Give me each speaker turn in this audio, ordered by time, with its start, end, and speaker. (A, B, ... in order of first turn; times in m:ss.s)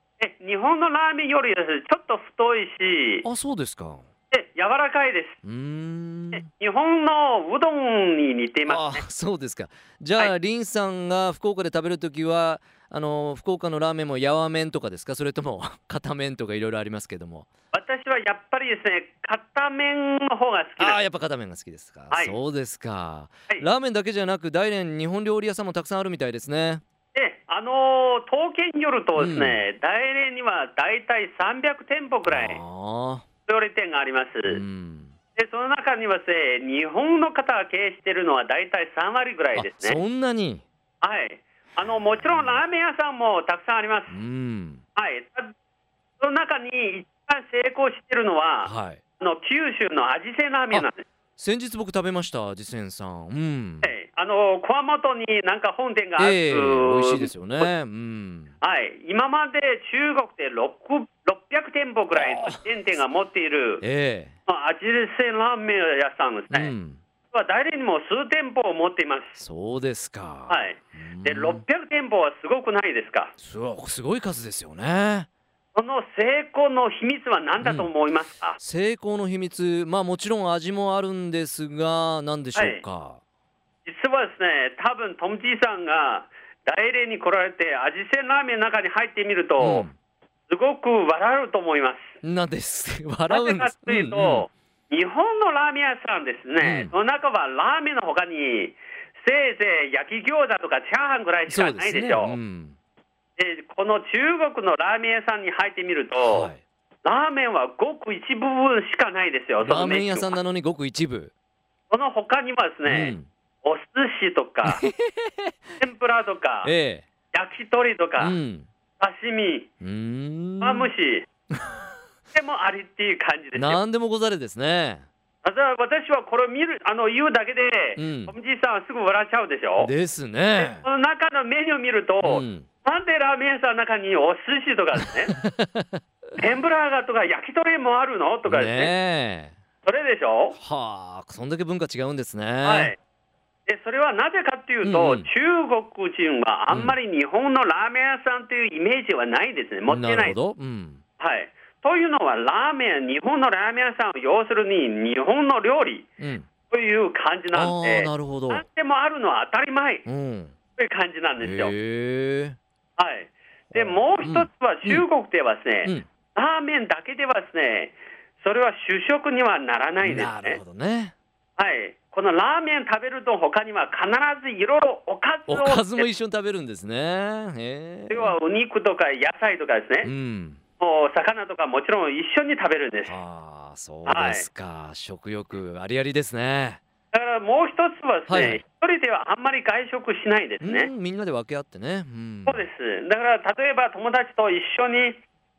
0:00.2-0:03.2 A
0:03.2-0:04.0 B
0:04.3-0:05.4 A
0:05.4-0:06.4 B
0:06.3-0:09.0 A
0:08.7-0:17.5 B
0:17.7-0:21.0 A
0:20.8-0:26.8 B
0:22.1-0:22.4 A
0:27.1-0:32.6 A
0:29.2-0:29.6 B
0:32.2-0:33.2 B
0:33.5-0:34.6 A
0:34.5-0:35.1 B
0:35.4-0:40.0 A
0:39.5-0:40.6 B
0:41.0-0:44.1 A
0:44.1-0:44.8 B
0:45.0-0:45.5 A
0:46.2-0:51.0 A
0:48.6-0:49.0 B
0:50.7-0:53.9 B
0:53.8-0:57.7 A
0:56.2-0:58.5 B
0:58.6-1:03.8 A
1:02.2-1:02.6 B
1:03.8-1:04.3 B
1:04.5-1:06.7 A
1:06.5-1:07.0 B
1:07.3-1:09.4 A
1:09.4-1:11.6 B
1:10.5-1:13.3 A
1:13.4-1:15.3 B
1:15.7-1:18.6 A
1:17.6-1:17.9 B
1:18.6-1:23.2 B
1:22.5-1:22.8 A
1:23.8-1:29.9 A
1:29.6-1:29.9 B
1:30.5-1:32.1 A
1:32.2-1:34.4 B
1:33.3-1:42.4 A
1:36.6-1:36.9 B
1:41.5-1:42.8 B
1:43.4-1:46.5 A
1:46.2-1:46.6 B
1:47.0-1:50.4 A
1:49.6-1:51.3 B
1:51.9-1:54.8 A
1:52.9-1:53.3 B
1:54.6-1:55.5 B
1:55.8-1:56.7 A
1:56.6-1:57.0 B
1:57.3-1:58.4 A
1:58.2-1:58.7 B
1:59.0-1:59.7 A
1:59.8-2:00.9 B
2:00.6-2:01.2 A
2:02.3-2:03.8 A
2:03.6-2:05.0 B
2:05.4-2:09.9 A
2:08.0-2:08.3 B
2:09.8-2:10.8 B
2:10.6-2:15.4 A
2:12.2-2:12.6 B
2:15.4-2:16.0 B
2:16.4-2:18.9 A
2:18.5-2:19.5 B
2:19.8-2:20.6 A
2:20.6-2:22.9 B
2:22.6-2:23.0 A
2:23.7-2:30.4 A
2:24.8-2:25.3 B
2:29.9-2:31.0 B
2:31.2-2:36.1 A
2:36.2-2:36.5 B
2:36.7-2:40.0 A
2:37.5-2:38.6 B
2:40.0-2:40.5 B
2:40.8-2:41.7 A
2:41.4-2:42.6 B
2:43.0-2:50.6 A
2:43.7-2:45.0 B
2:50.0-2:51.1 B
2:51.6-2:56.1 A
2:55.5-2:58.3 B
2:58.1-3:00.1 A
3:00.0-3:00.6 B
3:00.8-3:03.2 A
3:03.1-3:06.8 B
3:04.0-3:04.5 A
3:07.1-3:10.9 A
3:08.3-3:08.6 B
3:10.6-3:12.6 B
3:12.4-3:15.2 A